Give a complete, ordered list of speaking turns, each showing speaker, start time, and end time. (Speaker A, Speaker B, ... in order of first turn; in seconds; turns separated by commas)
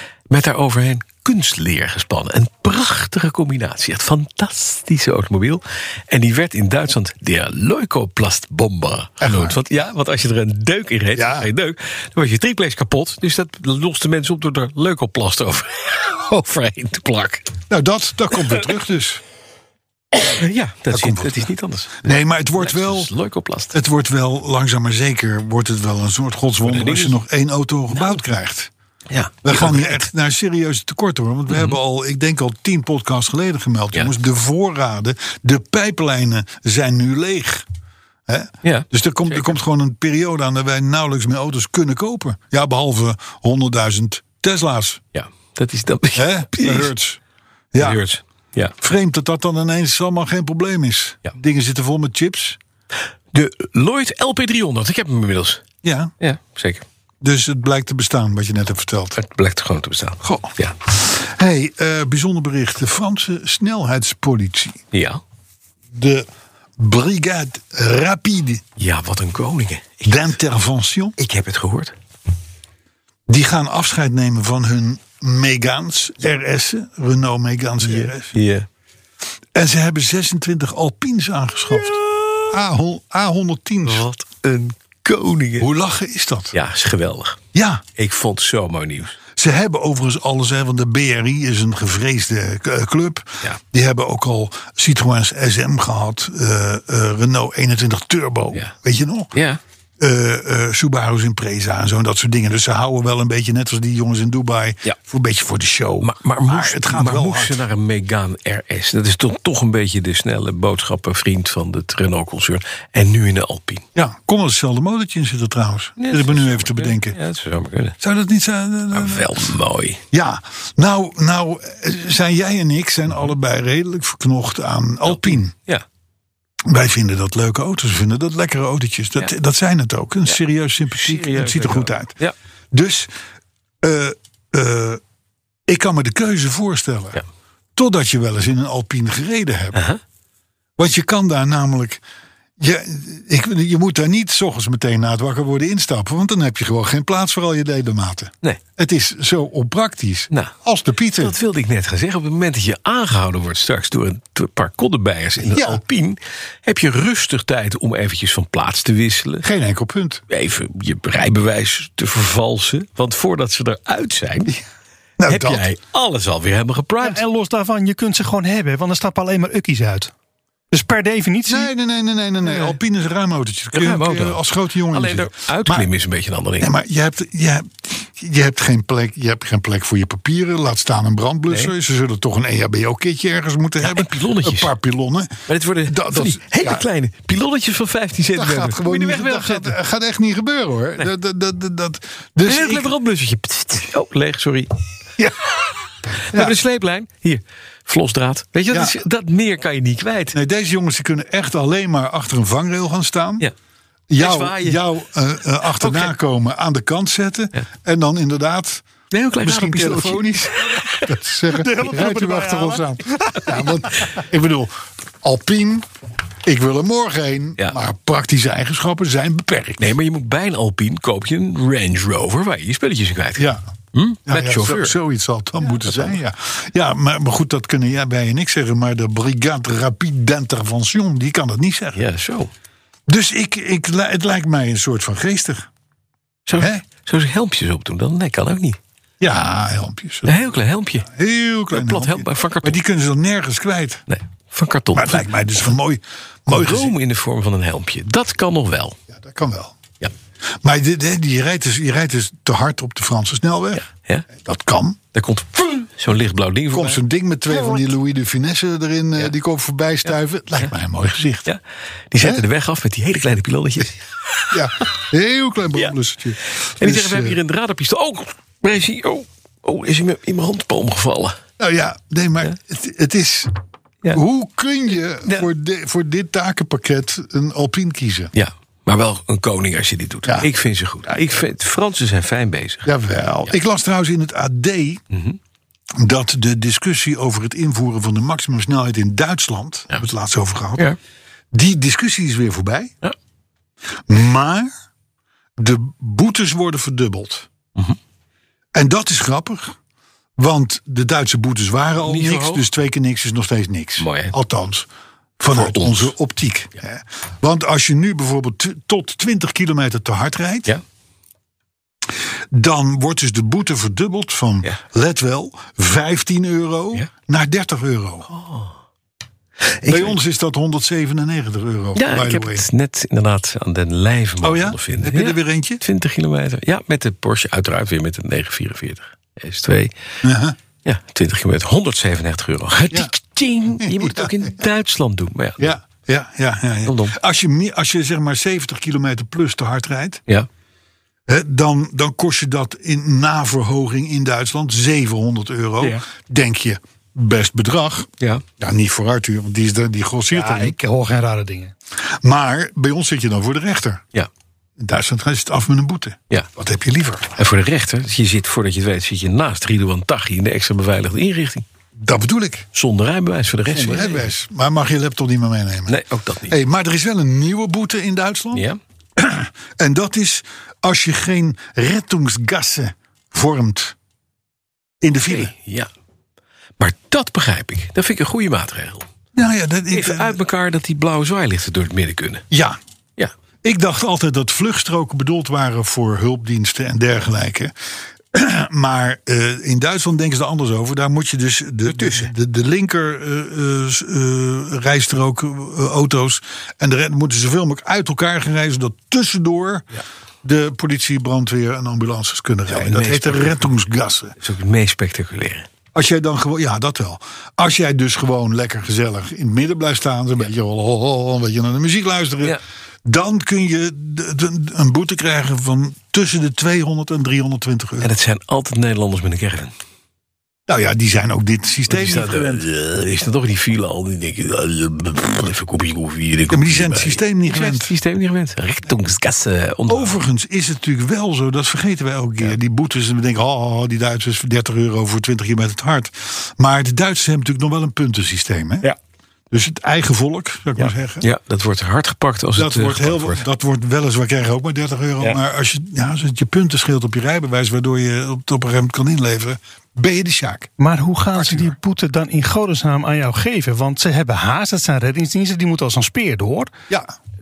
Speaker A: 0.3-17.5, Speaker B: 9.2-9.6, Speaker B: 11.1-11.5, Speaker B: 17.7-19.2, Speaker A: 20.1-23.8, Speaker B: 20.9-21.5, Speaker B: 22.0-23.1, Speaker B: 23.7-28.7, Speaker A: 26.6-27.2, Speaker A: 29.1-30.1, Speaker B: 29.4-37.6, Speaker A: 31.5-31.8, Speaker B: 38.3-45.0, Speaker A: 38.6-39.6, Speaker A: 45.1-46.9, Speaker B: 46.1-47.2, Speaker B: 47.7-48.0, Speaker A: 47.8-48.7, Speaker B: 48.8-52.6, Speaker A: 53.3-55.6, Speaker B: 55.8-56.1, Speaker A: 56.2-56.8, Speaker B: 57.2-59.2, Speaker A: 59.1-60.7, Speaker B: 60.2-64.8, Speaker A: 64.9-65.2, Speaker B: 65.9-68.6, Speaker A: 68.8-70.2, Speaker B: 70.0-71.2, Speaker A: 71.2-71.9, Speaker B: 73.3-78.4, Speaker A: 77.8-78.7, Speaker B: 79.5-84.0, Speaker A: 83.8-85.7, Speaker B: 85.6-86.5, Speaker A: 86.5-87.4, Speaker B: 87.5-87.8, Speaker A: 88.0-89.2, Speaker B: 89.3-99.3, Speaker A: 99.3-99.6, Speaker B: 100.0-107.6, Speaker A: 106.0-113.8, Speaker B: 113.9-117.2, Speaker A: 116.0-118.0, Speaker B: 118.0-119.5, Speaker A: 118.9-120.0, Speaker B: 120.1-125.5, Speaker A: 125.0-125.8, Speaker B: 126.7-132.1, Speaker A: 130.9-132.3, Speaker B: 132.7-133.1, Speaker B: 133.8-135.0, Speaker B: 135.7-137.2, Speaker B: 137.8-139.8, Speaker A: 139.7-140.0, Speaker B: 140.8-142.0, Speaker B: 142.6-151.3, Speaker A: 151.2-159.4, Speaker B: 155.4-155.8, Speaker B: 159.4-160.2, Speaker A: 160.3-164.6, Speaker B: 165.2-165.7, Speaker A: 165.2-167.2, Speaker C: 167.0-170.1, Speaker C: 170.7-171.7, Speaker B: 171.5-175.9, Speaker A: 173.7-176.7, Speaker B: 176.6-186.8, Speaker A: 183.8-184.7, Speaker A: 185.5-189.7, Speaker B: 188.3-192.9, Speaker A: 192.4-194.7, Speaker A: 196.3-200.4, Speaker B: 196.3-196.6, Speaker B: 198.7-199.0, Speaker B: 200.3-203.5, Speaker B: 204.1-208.8, Speaker A: 204.2-204.8, Speaker A: 205.6-206.1, Speaker A: 209.1-211.2, Speaker B: 209.4-215.9, Speaker C: 211.6-213.7, Speaker B: 216.4-219.9, Speaker A: 219.8-225.0, Speaker B: 223.4-223.6, Speaker B: 224.2-232.0, Speaker A: 225.6-226.2, Speaker A: 231.9-232.5, Speaker B: 233.1-235.7, Speaker A: 236.5-238.8, Speaker B: 236.5-236.8, Speaker B: 239.2-240.4, Speaker A: 240.2-241.1, Speaker B: 241.0-244.0, Speaker A: 241.7-242.8, Speaker A: 244.1-245.7, Speaker B: 244.9-246.9, Speaker A: 246.5-249.0, Speaker B: 249.1-249.8, Speaker B: 250.6-253.8, Speaker A: 253.7-254.3, Speaker B: 254.4-255.0, Speaker A: 255.1-257.0, Speaker B: 256.7-261.5, Speaker A: 257.5-257.8, Speaker A: 260.0-260.7, Speaker A: 262.1-264.5, Speaker B: 264.5-267.4, Speaker A: 266.6-271.4, Speaker B: 271.6-273.5, Speaker B: 274.1-278.3, Speaker A: 278.3-282.9, Speaker B: 282.8-285.0, Speaker A: 285.1-285.4, Speaker B: 285.9-290.9, Speaker B: 291.5-292.9, Speaker B: 294.1-294.7, Speaker B: 295.6-297.5, Speaker B: 298.7-299.8, Speaker B: 300.4-304.9, Speaker A: 302.0-302.6, Speaker A: 304.0-304.3, Speaker B: 305.4-310.7, Speaker A: 305.5-306.1, Speaker B: 312.5-318.3, Speaker A: 318.3-318.8, Speaker A: 319.6-320.1, Speaker B: 319.9-322.6, Speaker A: 321.9-329.9, Speaker B: 324.4-325.8, Speaker B: 330.2-330.6, Speaker A: 330.8-335.8, Speaker B: 333.8-334.5, Speaker B: 335.6-340.2, Speaker A: 336.8-337.1, Speaker B: 341.3-350.8, Speaker C: 350.3-351.7, Speaker B: 352.2-354.0, Speaker B: 354.8-357.4, Speaker A: 357.4-361.6, Speaker B: 362.0-362.7, Speaker A: 362.7-364.3, Speaker B: 363.7-373.9, Speaker A: 365.9-366.6, Speaker A: 368.5-368.8, Speaker B: 375.0-375.5, Speaker A: 375.2-375.9, Speaker A: 376.8-379.1, Speaker B: 379.3-380.4, Speaker A: 379.9-382.4, Speaker B: 382.5-382.8, Speaker B: 383.6-387.7, Speaker B: 388.3-399.9, Speaker A: 391.8-392.3, Speaker B: 400.4-404.4, Speaker A: 402.7-403.6, Speaker A: 404.4-405.7, Speaker B: 405.9-418.1, Speaker A: 418.0-419.7, Speaker B: 420.7-422.6, Speaker A: 421.9-430.2, Speaker B: 426.5-427.9, Speaker B: 429.9-438.9, Speaker B: 439.5-441.2, Speaker A: 440.8-443.4, Speaker B: 442.6-450.7, Speaker C: 450.8-456.7, Speaker B: 451.4-451.7